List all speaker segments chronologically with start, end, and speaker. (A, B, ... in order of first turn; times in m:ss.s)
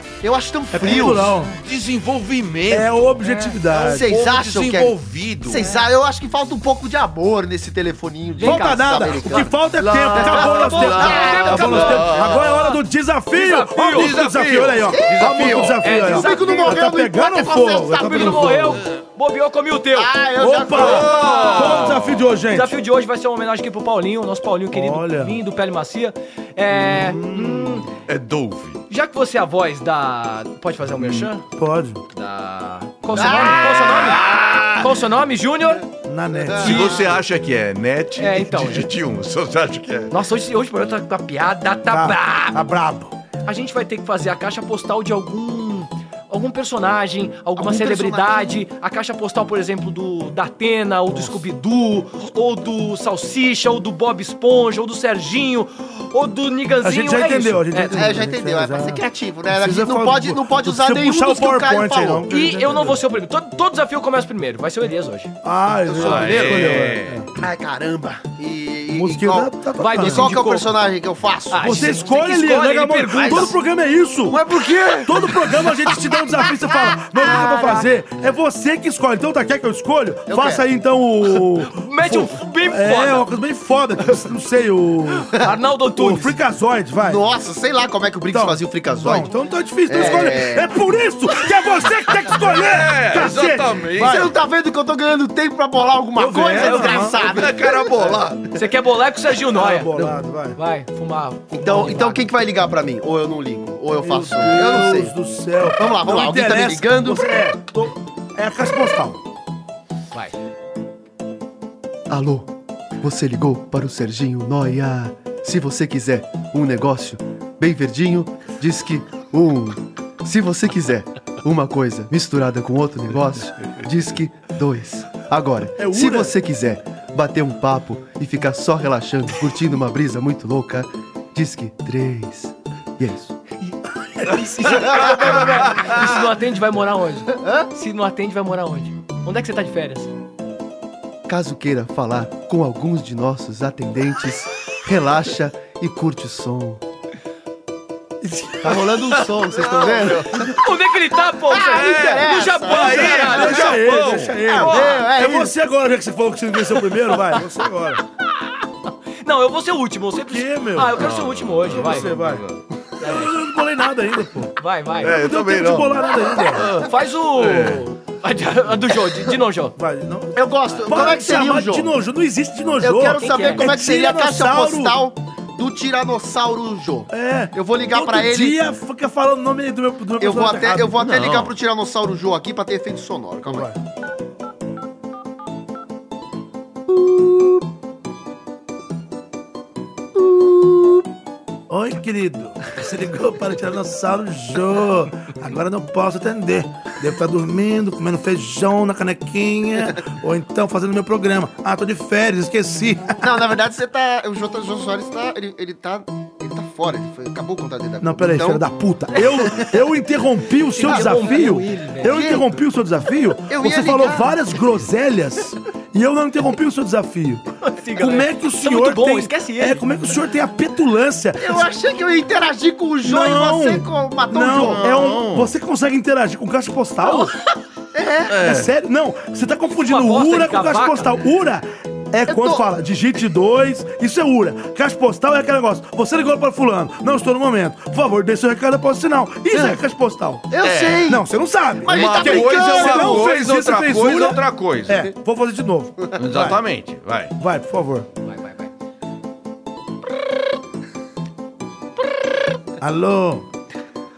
0:00.2-0:01.3 A
0:00.7-0:01.5 B
0:01.2-0:01.6 C
0:01.6-0:03.2 D
0:02.7-0:04.2 B
0:03.2-0:03.6 C
0:03.7-0:12.0 A
0:03.9-0:05.7 D
0:05.6-0:05.8 C
0:08.4-0:09.5 C
0:08.4-0:18.8 B
0:10.1-0:12.8 C
0:10.7-0:12.4 D
0:13.3-0:14.1 C
0:13.9-0:15.8 D
0:15.8-0:16.8 C
0:16.0-0:18.7 A
0:17.9-0:20.1 C
0:19.9-0:21.9 A
0:20.4-0:22.8 B
0:20.7-0:22.3 D
0:21.2-0:21.5 C
0:22.5-0:27.9 C
0:24.7-0:25.4 B
0:26.7-0:27.8 B
0:28.0-0:28.8 D
0:28.9-0:31.4 C
0:31.0-0:31.3 D
0:31.6-0:32.0 B
0:32.1-0:35.8 C
0:33.1-0:34.8 A
0:33.1-0:34.7 D
0:36.0-0:36.9 B
0:36.6-0:37.1 C
0:36.6-0:40.1 D
0:38.2-0:38.9 C
0:40.1-0:42.7 C
0:41.9-0:43.1 B
0:43.4-0:58.2 C
0:47.5-0:48.6 A
0:51.1-0:51.4 B
0:56.8-1:03.0 B
0:57.9-1:02.3 A
1:02.3-1:05.3 C
1:05.4-1:07.3 B
1:05.9-1:06.6 A
1:06.0-1:07.2 D
1:07.4-1:11.9 A
1:08.9-1:10.4 B
1:09.8-1:10.7 C
1:11.5-1:13.5 C
1:11.6-1:14.4 B
1:13.1-1:13.5 A
1:14.3-1:15.9 A
1:15.0-1:25.3 B
1:17.1-1:17.7 A
1:17.2-1:17.8 C
1:20.3-1:20.6 A
1:21.6-1:23.3 C
1:25.3-1:26.4 C
1:25.9-1:27.2 B
1:27.0-1:29.3 A
1:28.3-1:34.3 B
1:29.9-1:30.8 A
1:32.5-1:34.3 D
1:34.0-1:38.2 A
1:36.2-1:37.2 B
1:36.5-1:37.3 C
1:37.2-1:38.4 D
1:38.5-1:42.3 C
1:39.5-1:40.6 B
1:41.5-1:45.1 A
1:44.0-1:49.2 B
1:45.8-1:47.4 A
1:52.1-2:13.4 A
2:05.8-2:06.3 B
2:14.3-2:20.1 C
2:14.7-2:15.6 A
2:15.7-2:16.0 D
2:17.3-2:17.7 A
2:21.3-2:26.8 A
2:28.2-2:29.0 B
2:28.6-2:30.6 A
2:29.6-2:30.4 D
2:30.3-2:33.8 C
2:31.5-2:33.5 A
2:31.5-2:34.9 D
2:33.1-2:38.0 B
2:34.5-2:35.5 A
2:34.6-2:35.0 C
2:37.0-2:37.4 C
2:39.2-2:42.1 C
2:40.1-2:41.0 B
2:40.9-2:42.6 D
2:41.7-2:42.4 B
2:43.0-2:43.3 C
2:43.0-2:46.6 B
2:44.6-2:45.2 C
2:45.0-2:46.0 D
2:46.5-2:49.7 C
2:47.3-2:47.9 D
2:49.8-2:55.0 B
2:50.3-2:51.9 A
2:52.8-2:58.6 A
2:53.2-2:53.7 C
2:57.1-3:01.1 B
3:00.2-3:03.7 A
3:01.0-3:01.5 D
3:03.4-3:03.8 B
3:06.9-3:07.6 A
3:10.2-3:11.0 A
3:11.7-3:23.2 B
3:23.2-3:28.6 A
3:28.0-3:37.4 B
3:29.2-3:29.7 A
3:30.8-3:32.2 C
3:30.8-3:31.5 A
3:32.0-3:32.6 A
3:33.4-3:34.3 A
3:37.6-3:39.8 C
3:37.9-3:41.7 B
3:41.4-3:44.8 A
3:43.0-3:47.3 B
3:44.5-3:45.5 D
3:47.9-3:48.4 A
3:48.3-3:48.7 D
3:48.3-4:00.5 B
3:49.7-3:51.1 C
3:52.3-3:52.6 A
3:59.5-3:59.8 A
4:00.5-4:01.3 A
4:00.6-4:01.1 D
4:01.0-4:06.6 B
4:01.8-4:03.2 A
4:01.9-4:05.1 D
4:06.2-4:07.3 D
4:07.4-4:08.1 B
4:08.2-4:08.7 C
4:12.8-4:13.4 B